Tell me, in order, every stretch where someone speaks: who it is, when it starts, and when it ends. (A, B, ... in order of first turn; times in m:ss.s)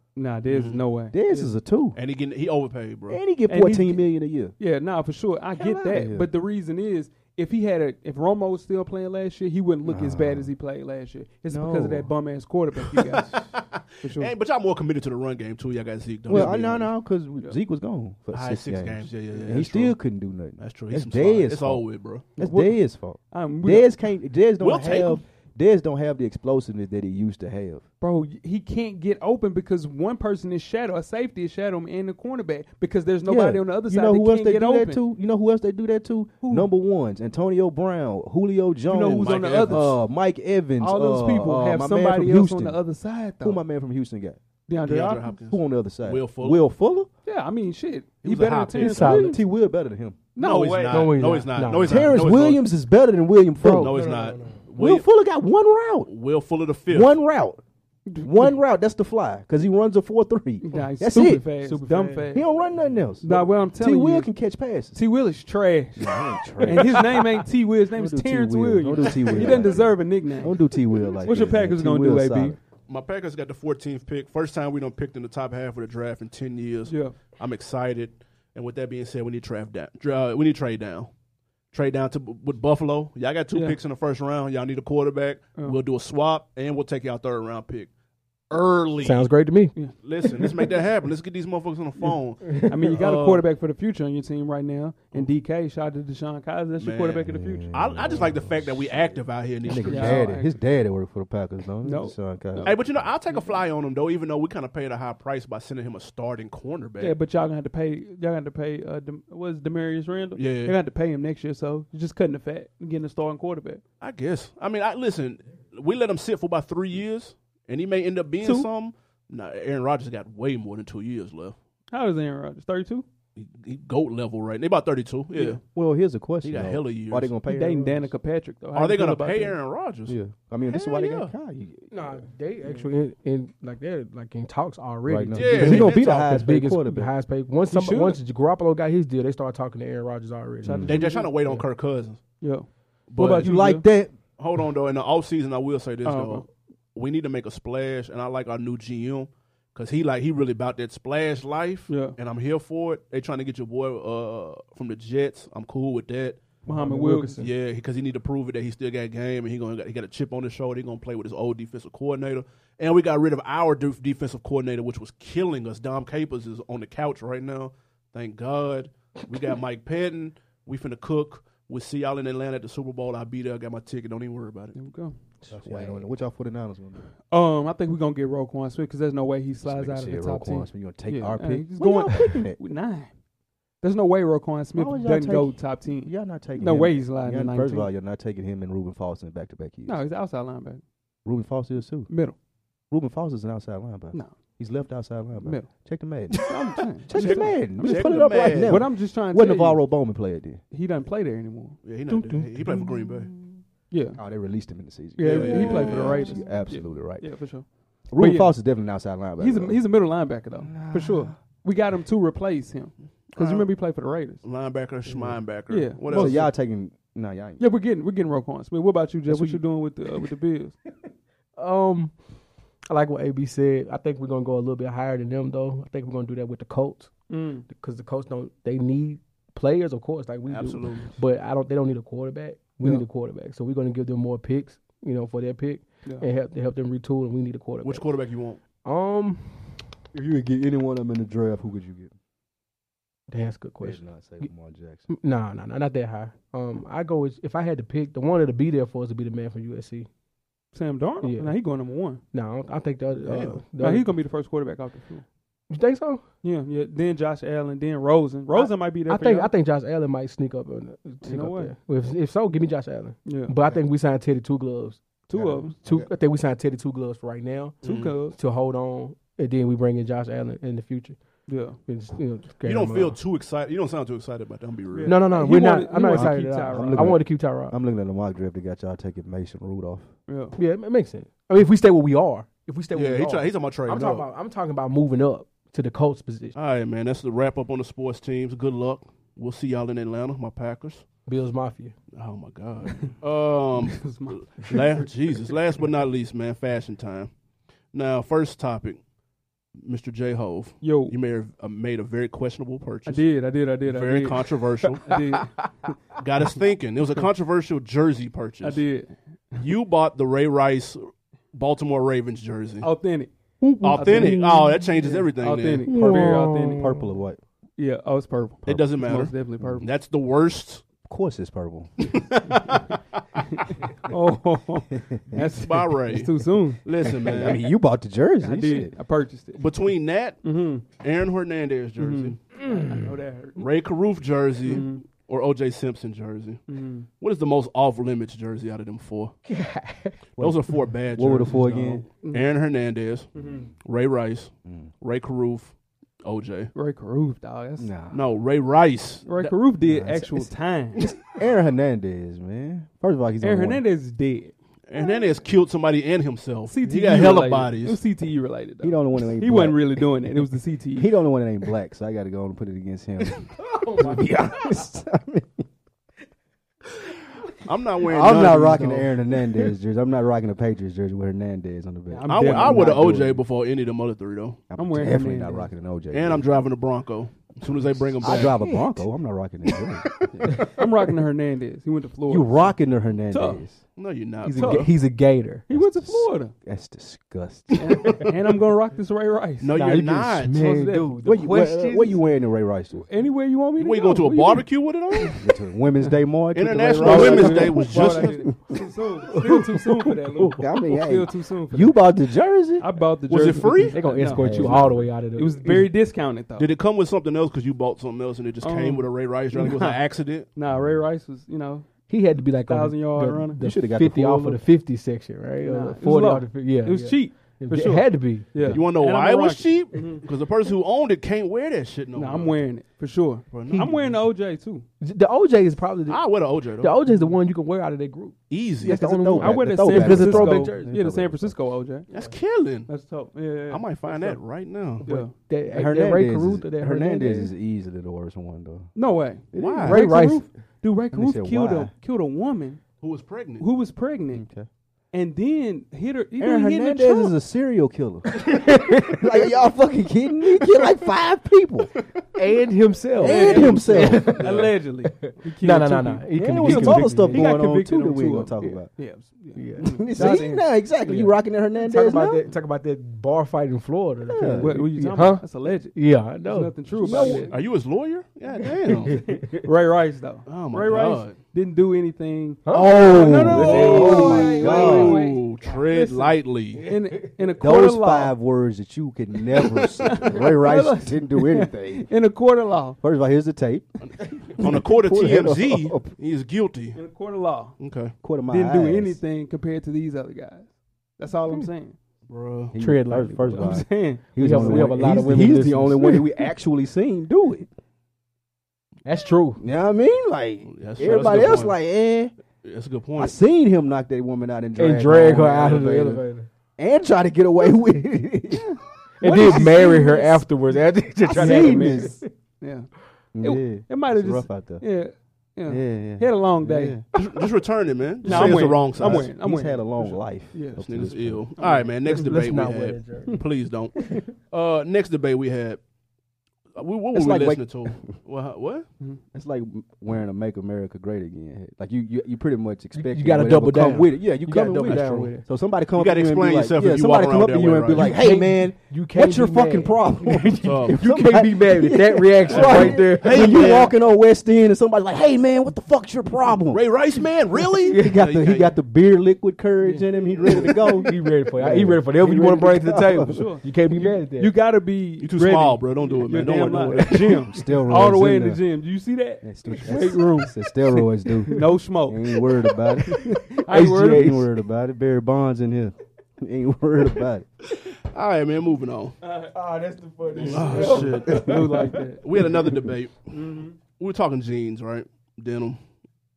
0:00.2-0:01.5 A
0:00.5-0:00.8 B
0:01.1-0:02.0 C
0:01.9-0:03.2 B
0:03.1-0:04.5 C
0:03.5-0:13.4 A
0:05.5-0:06.3 C
0:09.8-0:10.5 C
0:11.5-0:12.1 C
0:12.9-0:16.9 B
0:14.0-0:14.3 A
0:16.3-0:21.8 C
0:18.3-0:20.0 B
0:20.6-0:22.3 B
0:22.4-0:27.8 C
0:22.4-0:22.8 A
0:23.3-0:23.9 A
0:24.6-0:25.2 B
0:28.0-0:35.0 A
0:33.2-0:42.8 C
0:36.4-0:36.7 A
0:38.9-0:40.0 A
0:39.0-0:39.9 B
0:40.8-0:43.6 A
0:43.4-0:44.4 C
0:44.7-0:45.3 A
0:44.8-0:46.6 B
0:45.3-0:47.1 C
0:47.2-0:49.4 A
0:48.2-0:49.2 B
0:48.7-0:49.4 D
0:48.9-0:50.2 C
0:50.4-0:51.2 A
0:50.4-0:52.6 B
0:50.9-0:52.2 D
0:51.7-0:54.0 C
0:53.6-0:54.6 D
0:53.8-0:55.0 B
0:54.8-0:56.1 C
0:56.1-0:57.2 B
0:56.9-0:57.6 C
0:58.1-0:58.6 A
0:58.2-1:01.4 C
1:00.6-1:02.4 A
1:01.6-1:02.4 D
1:02.3-1:05.0 C
1:03.2-1:04.3 A
1:04.9-1:10.6 A
1:06.0-1:12.6 C
1:09.3-1:09.7 B
1:11.2-1:12.6 A
1:12.9-1:21.1 B
1:16.9-1:17.2 A
1:21.7-1:27.9 B
1:23.5-1:23.8 A
1:28.5-1:29.3 B
1:29.0-1:30.5 D
1:30.0-1:33.4 B
1:32.4-1:32.9 D
1:32.7-1:37.7 A
1:36.8-1:40.3 B
1:37.2-1:39.0 C
1:39.6-1:42.9 C
1:39.8-1:40.5 A
1:41.8-1:42.8 A
1:42.6-1:47.2 B
1:47.0-1:53.8 A
1:50.3-1:50.8 B
1:54.0-2:01.6 B
1:58.4-1:58.7 A
2:01.9-2:03.0 A
2:03.4-2:05.6 B
2:05.3-2:05.6 A
2:05.7-2:08.1 C
2:06.4-2:07.3 B
2:07.5-2:09.6 A
2:08.7-2:11.3 B
2:10.1-2:11.9 C
2:11.9-2:21.0 D
2:15.0-2:17.1 C
2:15.3-2:16.3 B
2:17.7-2:18.2 A
2:20.6-2:21.6 A
2:20.6-2:21.0 C
2:20.9-2:22.2 B
2:22.4-2:23.8 A
2:23.1-2:23.4 B
2:23.2-2:24.1 C
2:24.4-2:36.4 B
2:26.0-2:26.4 A
2:31.9-2:32.2 A
2:36.6-2:37.4 A
2:36.6-2:37.5 D
2:37.4-2:54.8 B
2:54.7-2:55.2 A
2:55.4-2:56.0 D
2:55.5-2:57.0 C
2:57.3-3:03.1 A
2:59.6-3:02.6 C
3:03.8-3:07.9 A
3:04.7-3:10.0 C
3:09.8-3:10.8 A
3:11.2-3:12.1 C
3:12.1-3:12.4 A
3:12.9-3:20.6 C
3:15.4-3:15.7 A
3:16.3-3:19.8 A
3:17.1-3:18.8 B
3:20.7-3:21.8 A
3:21.8-3:23.3 B
3:22.1-3:23.5 D
3:23.9-3:24.2 A
3:24.2-3:27.4 C
3:25.2-3:28.6 A
3:25.2-3:26.3 B
3:28.1-3:29.9 C
3:29.4-3:34.4 A
3:30.6-3:31.3 C
3:33.3-3:33.7 B
3:34.4-3:36.5 B
3:35.7-3:36.4 A
3:36.1-3:37.6 C
3:37.6-3:40.8 A
3:39.3-3:39.6 C
3:41.6-3:42.2 D
3:42.9-3:58.0 D
3:47.3-3:47.6 A
3:50.5-3:51.2 B
3:57.8-3:58.6 B
3:58.8-3:59.9 D
4:00.1-4:02.1 C
4:03.3-4:04.5 D
4:03.8-4:05.1 C
4:05.1-4:10.1 D
4:10.7-4:12.2 A
4:11.2-4:11.6 D
4:12.3-4:14.1 D
4:13.2-4:13.6 B
4:13.8-4:15.2 A
4:15.7-4:16.2 D
4:16.4-4:19.5 A
4:18.5-4:25.0 D
4:21.2-4:21.7 A
4:23.2-4:23.5 A
4:25.3-4:25.7 A
4:25.3-4:26.1 C
4:25.8-4:27.8 D
4:27.8-4:28.2 B
4:27.8-4:28.4 A
4:28.3-4:31.2 D
4:31.5-4:31.8 A
4:31.8-4:33.2 D
4:32.6-4:35.3 B
4:34.9-4:37.2 A
4:35.0-4:37.8 D
4:36.1-4:40.1 C
4:40.3-4:40.5 A
4:40.5-4:46.5 D
4:42.9-4:44.2 B
4:46.5-4:51.0 B
4:51.2-4:51.9 D
4:52.1-4:57.3 B
4:53.8-4:54.8 A
4:57.9-4:59.0 B
4:59.8-5:03.2 B
5:00.8-5:01.1 A
5:03.0-5:04.4 A
5:03.8-5:05.2 B
5:05.0-5:05.5 A
5:06.2-5:08.8 B
5:08.6-5:09.6 A
5:09.6-5:12.9 B
5:12.8-5:13.3 A
5:13.6-5:15.1 D
5:13.8-5:15.9 B
5:13.9-5:14.4 A
5:15.3-5:16.9 A
5:15.8-5:17.4 C
5:15.9-5:17.1 D
5:17.8-5:19.9 A
5:18.6-5:20.8 B
5:21.0-5:22.2 C
5:22.0-5:23.0 B
5:23.4-5:26.8 A
5:24.9-5:25.6 C
5:25.3-5:27.6 B
5:27.0-5:28.9 C
5:28.4-5:29.6 A
5:29.6-5:30.4 B
5:30.4-5:30.8 A
5:31.0-5:32.4 B
5:32.0-5:33.6 A
5:32.6-5:33.1 D
5:33.6-5:36.6 B
5:34.6-5:35.0 A
5:36.7-5:37.1 A
5:37.2-5:39.3 B
5:39.4-5:40.2 D
5:40.4-5:42.0 C
5:40.4-5:43.3 B
5:42.2-5:42.5 A
5:43.3-5:43.7 A
5:43.8-5:46.7 B
5:44.6-5:44.9 C
5:46.7-5:47.9 A
5:47.8-5:48.2 C
5:48.1-5:49.2 B
5:49.2-5:51.1 A
5:49.8-5:53.8 C
5:53.4-5:54.5 A
5:54.9-5:58.0 B
5:56.7-6:01.1 A
5:58.8-6:00.0 C
6:00.9-6:05.6 C
6:03.6-6:04.8 D
6:07.6-6:09.1 B
6:08.0-6:13.4 C
6:12.1-6:13.1 A
6:12.3-6:14.6 B
6:14.7-6:16.5 C
6:14.8-6:15.7 A
6:16.1-6:18.6 B
6:18.2-6:20.8 C
6:18.2-6:19.0 D
6:20.6-6:22.7 A
6:22.3-6:23.8 C
6:23.3-6:23.6 A
6:24.0-6:24.9 B
6:24.4-6:25.6 D
6:24.5-6:24.9 A
6:25.7-6:26.5 A
6:25.7-6:28.1 C
6:27.8-6:29.7 A
6:29.6-6:30.6 B
6:29.7-6:32.2 D
6:30.6-6:31.1 A
6:31.2-6:33.0 C
6:32.9-6:34.7 A
6:33.8-6:35.4 B
6:35.4-6:38.8 C
6:36.5-6:38.5 B
6:37.0-6:42.0 A
6:37.0-6:37.8 D
6:40.4-6:42.9 C
6:42.8-6:46.7 A
6:43.3-6:44.0 B
6:43.9-6:45.9 D
6:44.1-6:45.1 C
6:46.6-6:50.5 B
6:48.6-6:51.9 A
6:50.7-6:51.0 C
6:52.1-6:58.8 D
6:52.7-6:53.6 A
6:53.6-6:54.6 C
6:55.6-7:00.2 A
6:58.7-7:02.6 B
7:02.1-7:04.8 A
7:03.5-7:04.1 B
7:05.0-7:10.9 D
7:06.1-7:07.0 B
7:08.5-7:09.0 B
7:08.8-7:11.6 C
7:09.4-7:12.1 A
7:12.1-7:12.9 B
7:12.9-7:14.4 A
7:13.7-7:15.0 B
7:15.0-7:15.3 A
7:15.0-7:17.5 D
7:15.7-7:18.9 C
7:18.9-7:22.8 A
7:19.5-7:20.0 C
7:19.5-7:20.0 B
7:19.8-7:20.4 D
7:21.1-7:21.9 C
7:23.0-7:23.7 B
7:23.6-7:24.4 A
7:24.3-7:24.7 C
7:25.1-7:27.3 A
7:26.4-7:31.9 C
7:28.4-7:29.5 D
7:32.3-7:37.5 D
7:33.2-7:34.5 C
7:33.2-7:40.7 A
7:36.3-7:38.9 C
7:39.5-7:40.4 D
7:39.8-7:42.5 C
7:41.0-7:47.6 D
7:44.2-7:44.8 C
7:44.6-7:47.5 A
7:47.0-7:47.4 C
7:47.5-7:49.2 B
7:48.9-7:49.6 D
7:49.1-7:56.0 A
7:50.5-7:51.4 B
7:52.6-7:56.2 D
7:52.7-7:55.2 C
7:53.6-7:56.8 B
7:56.7-7:57.3 D
7:56.8-7:58.4 A
7:57.6-8:02.1 C
8:00.0-8:03.0 A
8:03.0-8:06.1 C
8:04.0-8:07.0 B
8:06.9-8:07.7 A
8:07.8-8:08.1 B
8:08.2-8:09.2 C
8:08.5-8:12.0 A
8:12.3-8:12.7 B
8:12.7-8:17.7 C
8:12.8-8:13.8 D
8:13.5-8:15.0 A
8:14.4-8:16.3 D
8:19.0-8:19.6 D
8:19.6-8:22.3 C
8:20.7-8:21.8 B
8:22.6-8:23.4 B
8:23.2-8:26.2 C
8:24.8-8:26.5 D
8:26.8-8:28.6 C
8:28.5-8:30.4 A
8:29.2-8:32.2 D
8:29.3-8:30.1 C
8:31.3-8:32.2 C
8:31.3-8:32.9 A
8:33.3-8:34.8 C
8:33.4-8:37.0 A
8:35.7-8:37.0 C
8:37.1-8:39.3 B
8:38.2-8:40.8 A
8:38.2-8:41.5 C
8:40.8-8:45.8 B
8:41.6-8:42.3 A
8:42.0-8:43.4 D
8:44.0-8:44.2 D
8:46.8-8:48.9 B
8:47.1-8:48.1 C
8:49.3-9:06.9 C
8:52.9-8:55.4 D
8:55.9-8:58.1 B
8:58.0-9:03.8 D
9:00.6-9:01.0 B
9:02.4-9:03.9 B
9:06.7-9:08.8 B
9:07.9-9:13.5 C
9:10.4-9:10.8 B
9:10.5-9:14.5 D
9:13.2-9:20.6 A
9:15.2-9:17.5 B
9:17.5-9:18.6 C
9:19.4-9:27.4 C
9:21.4-9:22.4 A
9:23.1-9:24.4 A
9:23.6-9:24.4 D
9:27.9-9:29.2 B
9:29.2-9:29.5 A
9:29.5-9:32.7 D
9:30.3-9:33.4 B
9:30.4-9:32.2 A
9:30.8-9:31.6 C
9:33.3-9:33.8 A
9:34.0-9:35.8 B